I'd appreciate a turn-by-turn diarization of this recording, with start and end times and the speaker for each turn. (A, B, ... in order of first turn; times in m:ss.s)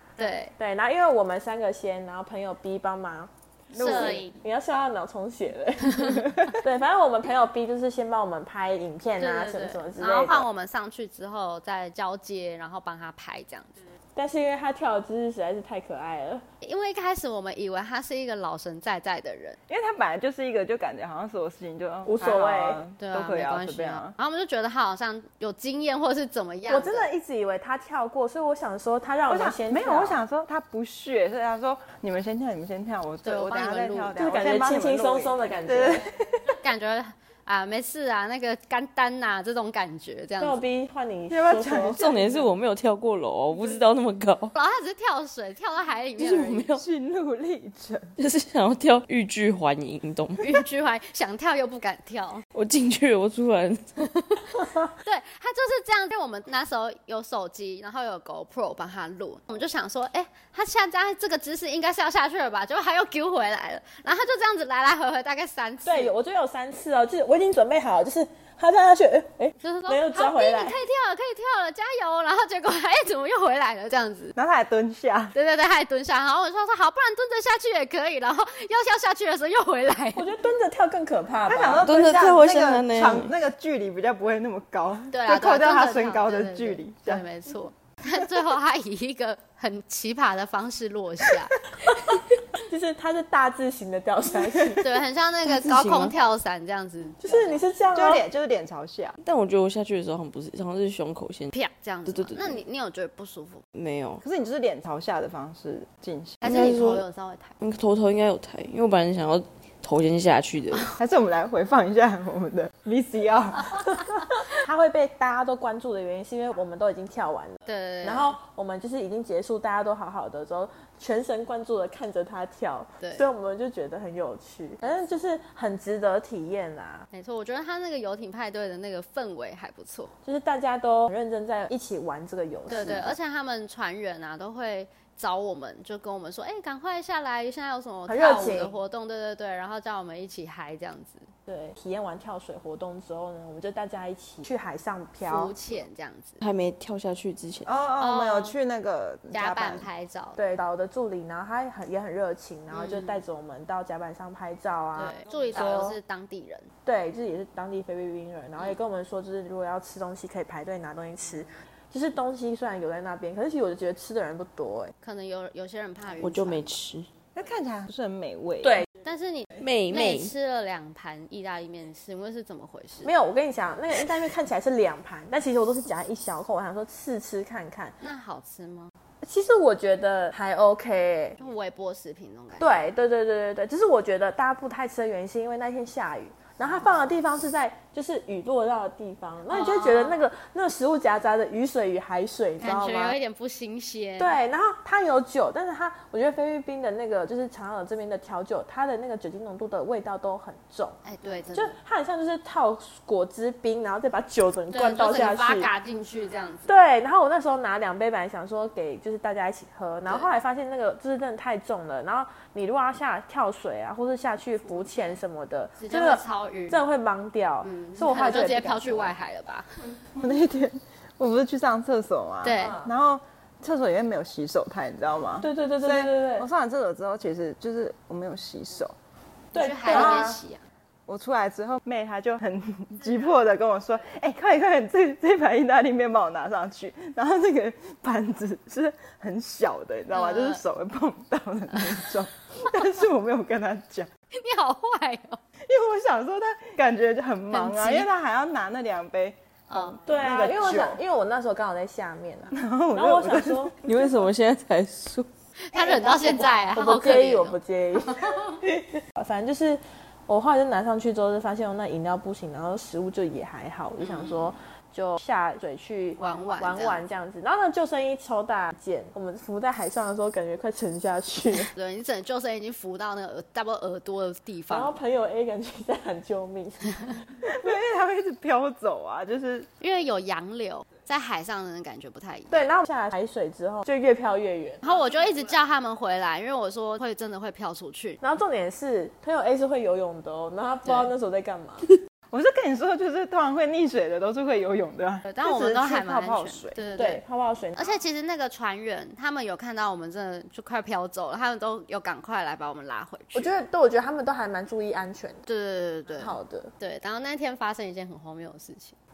0:00.2-0:00.5 A
0:00.6-0:10.4 B
0:03.7-0:04.3 C
0:03.8-0:04.4 A
0:06.2-0:06.5 C
0:09.2-0:13.9 A
0:14.2-0:16.4 B
0:16.6-0:19.6 A
0:19.7-0:24.2 C
0:22.1-0:22.8 B
0:23.0-0:27.1 A
0:26.7-0:30.2 B
0:29.3-0:36.6 C
0:33.2-0:34.2 A
0:34.2-0:36.1 B
0:36.6-0:40.6 A
0:40.4-0:42.0 B
0:41.3-0:42.5 C
0:41.9-0:44.5 D
0:44.5-0:46.7 A
0:46.2-0:46.8 D
0:46.7-0:48.2 C
0:48.2-0:50.6 D
0:50.4-0:52.4 A
0:52.5-0:54.6 D
0:55.0-1:06.1 A
1:05.8-1:10.8 B
1:09.6-1:14.3 A
1:14.4-1:15.4 C
1:15.3-1:20.3 A
1:20.2-1:21.9 B
1:21.5-1:27.2 C
1:21.8-1:23.3 D
1:25.1-1:31.6 A
1:32.6-1:35.0 B
1:34.8-1:37.6 A
1:35.6-1:36.1 D
1:37.2-1:38.2 B
1:37.9-1:39.2 C
1:39.2-1:41.5 D
1:41.5-1:43.6 A
1:42.1-1:42.6 D
1:43.7-1:44.2 D
1:44.2-1:46.4 C
1:46.4-1:47.6 A
1:46.4-1:47.0 D
1:47.6-1:50.9 D
1:51.0-1:54.0 C
1:54.4-2:07.1 B
1:57.7-1:58.4 A
2:03.0-2:03.3 A
2:07.1-2:10.2 A
2:10.2-2:13.2 B
2:12.7-2:21.3 A
2:18.1-2:18.7 B
2:21.5-2:25.5 B
2:25.3-2:26.4 A
2:26.4-2:27.7 D
2:27.6-2:29.9 C
2:28.0-2:28.6 A
2:29.3-2:30.4 A
2:30.4-2:36.0 B
2:32.7-2:33.2 A
2:35.0-2:36.7 A
2:36.8-2:44.9 B
2:45.0-2:46.8 A
2:46.2-2:47.1 D
2:47.4-2:48.8 C
2:48.6-2:48.9 B
2:49.0-2:53.1 A
2:49.6-2:50.3 D
2:53.0-2:58.0 B
2:58.0-2:58.9 A
2:59.2-3:01.4 B
3:01.4-3:02.9 A
3:02.6-3:13.2 B
3:09.5-3:10.2 A
3:12.6-3:14.4 A
3:14.2-3:21.0 B
3:21.0-3:21.8 A
3:21.5-3:25.7 B
3:24.7-3:26.7 A
3:26.7-3:39.1 B
3:35.8-3:36.8 A
3:37.6-3:39.7 A
3:40.2-3:48.9 C
3:42.4-3:42.8 A
3:42.6-3:42.9 B
3:45.4-3:46.5 B
3:49.5-3:50.4 B
3:49.5-3:50.6 A
3:49.9-3:50.4 C
3:51.1-4:04.1 C
4:00.1-4:00.6 A
4:04.3-4:05.4 A
4:05.6-4:11.0 C
4:07.5-4:08.1 A
4:09.7-4:10.0 A
4:10.1-4:13.7 B
4:12.5-4:14.0 C
4:13.8-4:15.3 D
4:15.6-4:17.6 A
4:15.7-4:31.7 B
4:18.2-4:18.5 A
4:24.0-4:24.5 A
4:26.2-4:27.0 A
4:31.7-4:35.0 A
4:34.7-4:37.5 B
4:37.5-4:39.7 C
4:39.8-4:42.7 A
4:42.5-4:44.8 B
4:44.8-4:48.2 A
4:48.2-4:51.8 B
4:50.8-4:51.1 A
4:52.3-4:56.8 C
4:55.2-4:57.2 A
4:57.0-4:57.9 B
4:57.8-5:03.5 A
5:03.4-5:05.4 B
5:05.5-5:09.0 A
5:06.2-5:06.7 B